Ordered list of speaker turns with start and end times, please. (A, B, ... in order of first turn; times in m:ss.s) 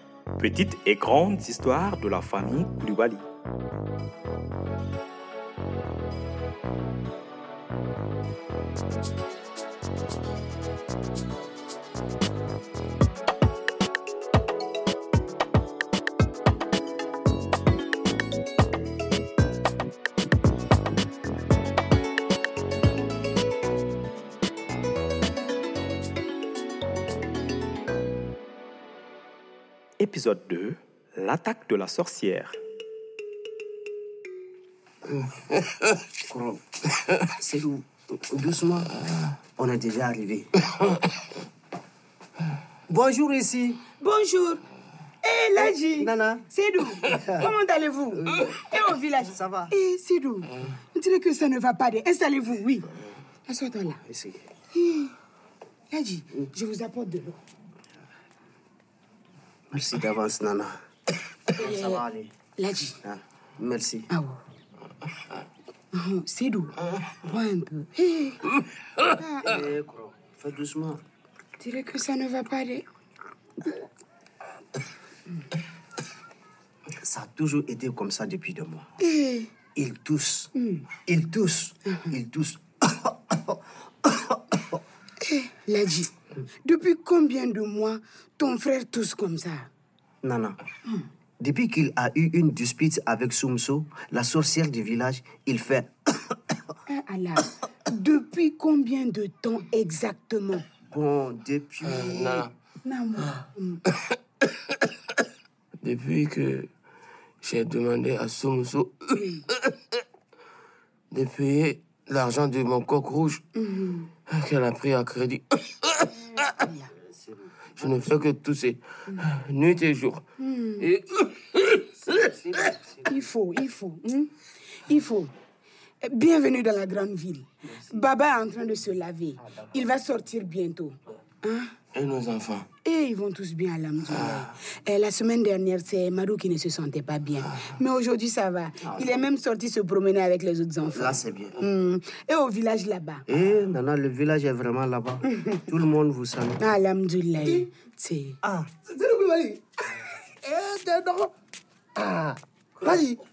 0:00.4-0:03.2 A
0:30.0-0:32.6 A
0:36.3-0:36.6 B
0:37.3-0:38.9 B
0:39.6-0:40.5 B
0:42.9-0:43.8 B
0:44.0-0:44.6 C
0:45.2-0:52.9 C
0:45.6-0:46.4 B
0:47.2-0:47.5 B
0:48.2-0:48.5 B
0:49.3-0:49.7 B
0:53.5-0:54.0 C
0:54.0-0:54.4 B
0:54.7-0:55.1 C
0:55.9-0:57.4 C
0:59.7-1:00.8 B
1:01.6-1:02.3 B
1:01.6-1:02.0 C
1:02.6-1:03.0 C
1:03.0-1:04.0 B
1:04.1-1:04.4 C
1:05.9-1:08.4 C
1:09.2-1:09.6 C
1:09.4-1:11.0 B
1:11.6-1:12.9 C
1:17.0-1:18.9 B
1:19.0-1:19.5 C
1:19.8-1:20.5 B
1:21.0-1:24.8 B
1:25.2-1:26.1 C
1:26.6-1:29.7 C
1:30.2-1:30.6 B
1:31.4-1:36.4 B
1:36.9-1:40.7 C
1:40.9-1:42.5 B
1:41.9-1:42.5 D
1:42.8-1:43.8 C
1:45.8-1:46.7 D
1:47.4-1:49.4 D
1:51.1-1:53.4 D
1:53.6-1:54.1 C
1:54.3-1:56.4 D
1:56.6-1:56.9 C
1:57.1-1:57.9 B
1:57.8-2:00.2 D
2:00.4-2:00.9 C
2:00.8-2:02.7 D
2:02.4-2:02.8 B
2:03.0-2:04.3 C
2:04.9-2:05.3 C
2:06.0-2:11.7 C
2:11.9-2:12.7 D
2:12.8-2:23.3 C
2:14.1-2:14.5 D
2:18.8-2:19.2 B
2:20.9-2:21.6 B
2:23.3-2:26.7 B
2:25.3-2:25.6 C
2:26.6-2:28.4 C
2:28.6-2:29.6 E
2:30.4-2:31.3 E
2:32.0-2:33.2 E